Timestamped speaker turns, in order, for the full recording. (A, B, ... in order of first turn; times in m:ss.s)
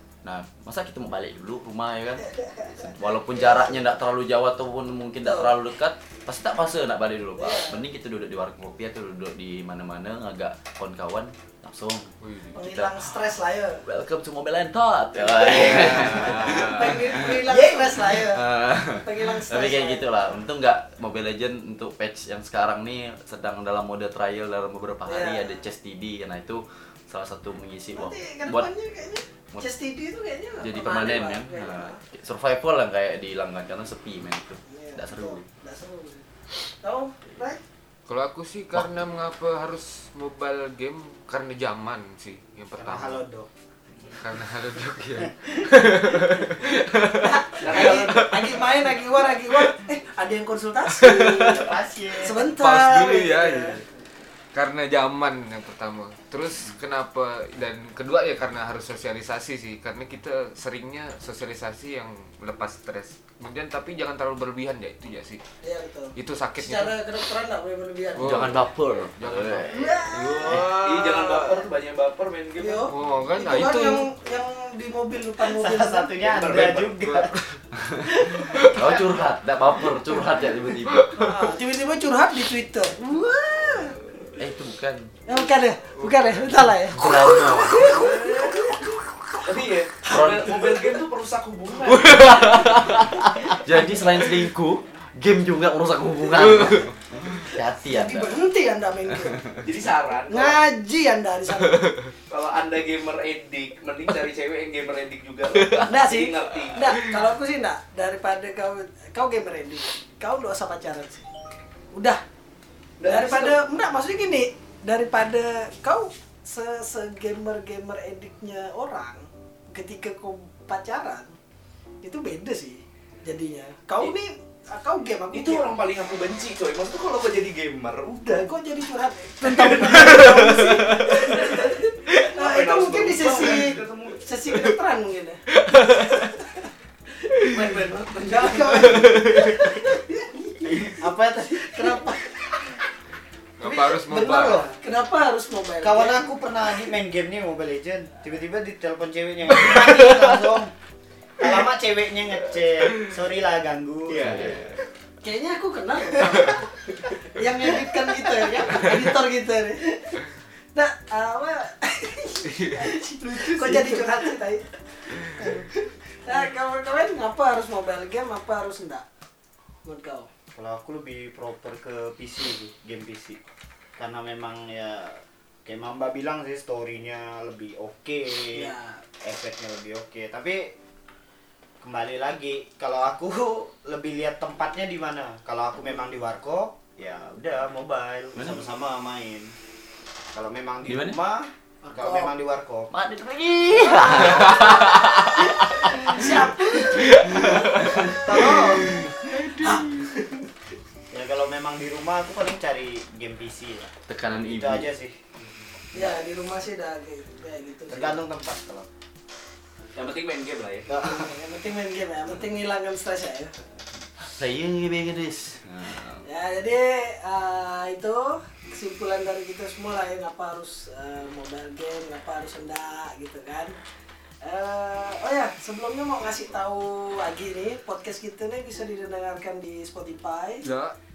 0:00.2-0:13.3 A
0:02.2-0:03.8 B
0:05.2-0:05.5 B
0:07.4-0:07.8 B
0:12.2-0:12.6 C
0:12.5-0:13.8 B
0:13.9-0:28.7 A
0:15.2-0:20.1 B
0:15.5-0:15.8 D
0:17.5-0:18.1 E
0:25.1-0:25.6 B
0:27.9-0:32.0 B
0:30.6-0:35.4 A
0:34.7-0:36.3 B
0:36.8-0:37.6 B
0:38.1-0:43.2 C
0:42.8-0:43.5 E
0:44.2-0:48.6 C
0:47.2-0:51.7 B
0:47.6-0:48.4 D
0:50.9-0:51.7 C
0:51.2-0:52.5 E
0:52.2-0:53.8 B
0:52.5-0:53.8 C
0:54.5-1:05.4 C
1:05.6-1:08.6 B
1:06.2-1:07.0 C
1:08.2-1:10.6 C
1:08.2-1:10.7 A
1:09.7-1:11.6 B
1:10.6-1:13.1 D
1:12.6-1:16.2 B
1:12.9-1:14.1 C
1:15.4-1:17.3 E
1:16.2-1:17.3 D
1:17.7-1:21.4 A
1:18.3-1:18.5 B
1:18.3-1:19.0 C
1:20.8-1:21.3 C
1:21.1-1:24.0 B
1:24.4-1:25.1 A
1:25.3-1:31.0 B
1:26.0-1:26.8 C
1:26.9-1:28.2 A
1:28.2-1:28.5 D
1:29.4-1:32.6 D
1:30.1-1:30.8 A
1:31.9-1:33.0 C
1:32.0-1:38.4 A
1:33.5-1:34.3 B
1:36.3-1:36.9 C
1:37.8-1:39.5 B
1:39.2-1:39.7 A
1:39.6-1:40.6 D
1:40.3-1:42.0 B
1:42.3-1:46.9 D
1:45.9-1:51.3 B
1:51.9-1:52.2 B
1:53.0-1:53.6 D
1:53.0-2:01.4 B
2:02.0-2:05.7 B
2:05.3-2:08.5 D
2:08.3-2:16.7 B
2:09.5-2:14.3 D
2:10.0-2:10.8 C
2:15.6-2:16.3 C
2:17.2-2:22.8 B
2:17.4-2:19.4 D
2:19.0-2:19.5 C
2:20.6-2:22.2 E
2:23.6-2:24.7 C
2:23.6-2:24.7 E
2:24.4-2:26.3 B
2:25.8-2:30.7 E
2:29.7-2:30.3 C
2:31.4-2:34.7 E
2:34.1-2:34.7 D
2:34.2-2:34.7 A
2:35.2-2:49.0 B
2:42.5-2:42.8 C
2:43.2-2:44.2 D
2:49.8-2:50.3 B
2:50.6-2:53.4 E
2:54.0-3:00.7 E
2:58.5-2:59.0 B
3:01.8-3:09.6 E
3:08.4-3:08.6 A
3:10.3-3:12.9 E
3:10.9-3:11.2 A
3:11.9-3:12.3 B
3:12.9-3:20.0 A
3:14.1-3:14.4 E
3:15.3-3:17.6 B
3:17.6-3:19.1 E
3:18.3-3:20.1 B
3:18.8-3:19.8 C
3:21.1-3:25.2 E
3:24.1-3:24.9 A
3:25.9-3:26.2 E
3:25.9-3:28.2 B
3:27.9-3:28.9 E
3:29.9-3:30.9 D
3:30.9-3:31.3 E
3:31.0-3:33.5 B
3:34.2-3:36.3 A
3:36.2-3:43.8 B
3:44.4-3:50.7 B
3:50.6-3:51.0 C